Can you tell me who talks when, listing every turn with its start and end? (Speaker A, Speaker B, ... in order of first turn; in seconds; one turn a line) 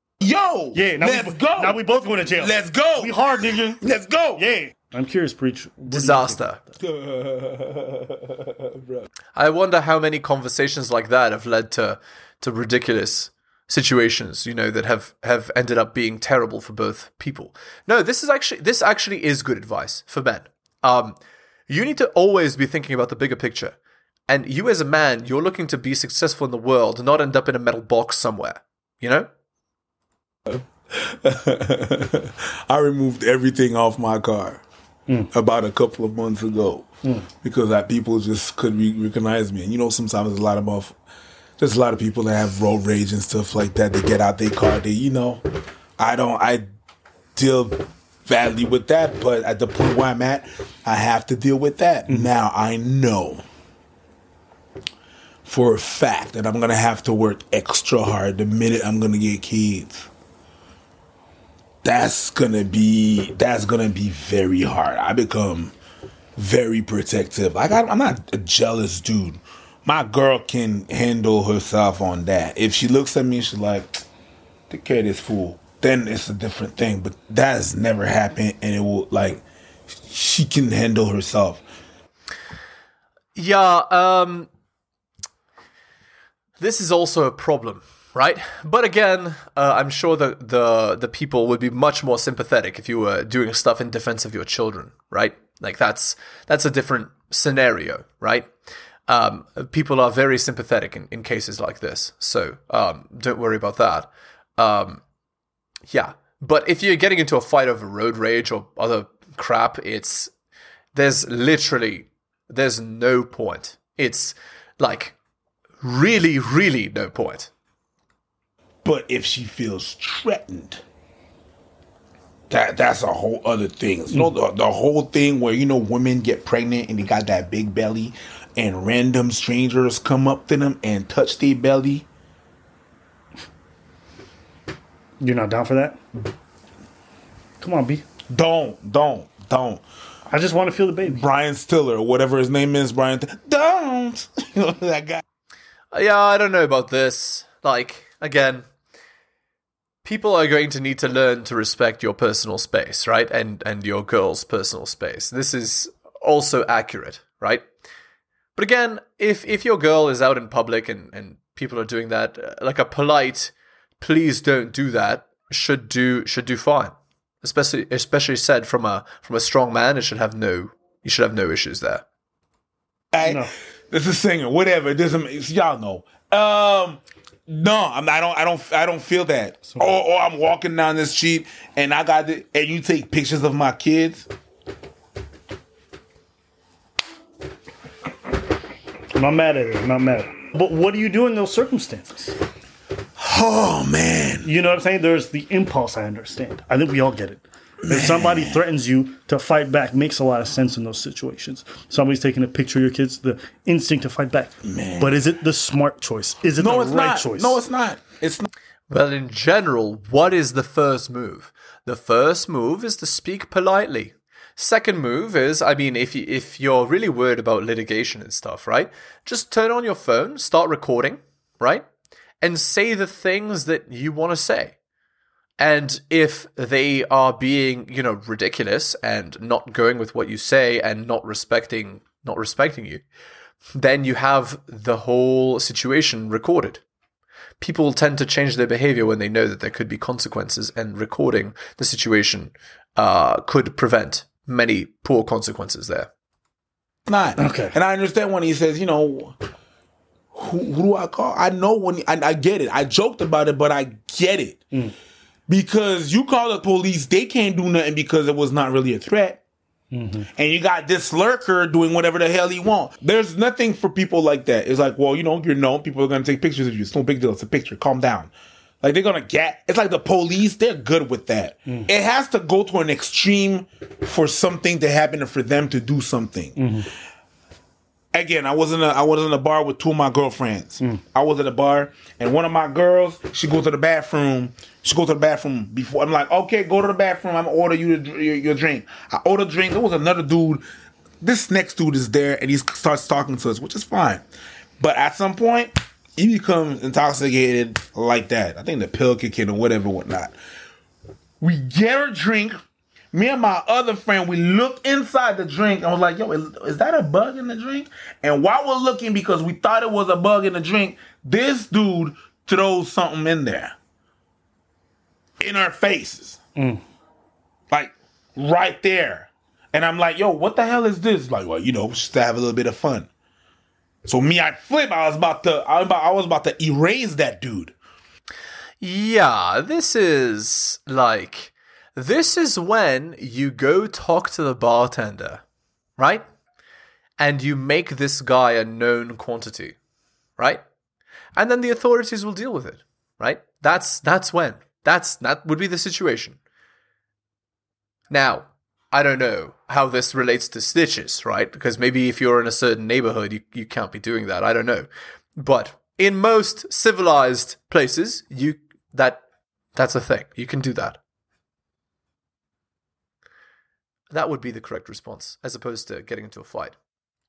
Speaker A: 0.2-3.3
Speaker B: 0.7-3.8
Speaker A: 3.8-4.4
Speaker B: 4.4-6.5
Speaker C: 5.9-6.6
Speaker A: 6.8-9.0
Speaker C: 9.3-21.1
Speaker C: 21.7-23.8
Speaker C: 24.3-29.3
Speaker A: 30.4-34.6
Speaker A: 35.3-36.9
Speaker A: 37.4-41.0
Speaker A: 41.6-45.4
Speaker A: 46.0-46.6
Speaker A: 47.3-53.4
Speaker A: 55.5-60.1
Speaker A: 61.8-65.7
Speaker A: 66.3-74.0
Speaker A: 74.7-81.6
Speaker C: 83.3-84.5
Speaker C: 86.6-98.5
Speaker C: 99.1-105.0
Speaker C: 105.9-110.3
Speaker C: 110.9-115.1
Speaker C: 115.8-117.5
Speaker A: 118.8-120.8
Speaker A: 122.5-132.1
Speaker B: 135.2-136.0
Speaker B: 137.6-138.0
Speaker A: 138.3-139.8
Speaker B: 140.3-141.2
Speaker A: 141.0-145.2
Speaker C: 145.9-148.7
Speaker C: 150.0-157.6
Speaker C: 158.6-172.0
Speaker A: 173.1-184.3
Speaker B: 173.2-173.5
Speaker B: 189.1-192.3
Speaker A: 193.2-194.5
Speaker B: 194.4-207.6
Speaker A: 197.8-198.6
Speaker A: 204.6-205.2
Speaker A: 206.6-208.5
Speaker C: 208.9-221.8
Speaker C: 222.4-224.7
Speaker C: 225.6-233.0
Speaker C: 233.7-236.8
Speaker C: 237.6-246.1
Speaker A: 247.1-249.3
Speaker B: 247.4-247.8
Speaker A: 250.3-254.6
Speaker A: 255.5-259.4
Speaker B: 259.9-260.3
Speaker A: 260.2-268.3
Speaker A: 268.8-276.6
Speaker B: 276.6-276.9
Speaker A: 278.1-290.6
Speaker A: 291.2-294.2
Speaker A: 294.8-300.3
Speaker A: 301.4-302.6
Speaker A: 303.1-313.8
Speaker A: 315.4-316.4
Speaker B: 316.6-316.8
Speaker A: 317.7-323.1
Speaker A: 324.0-327.7
Speaker C: 328.8-335.4
Speaker C: 336.0-336.2
Speaker C: 337.2-339.8
Speaker C: 341.4-346.4
Speaker C: 348.1-359.2
Speaker C: 359.8-361.0
Speaker C: 364.1-366.8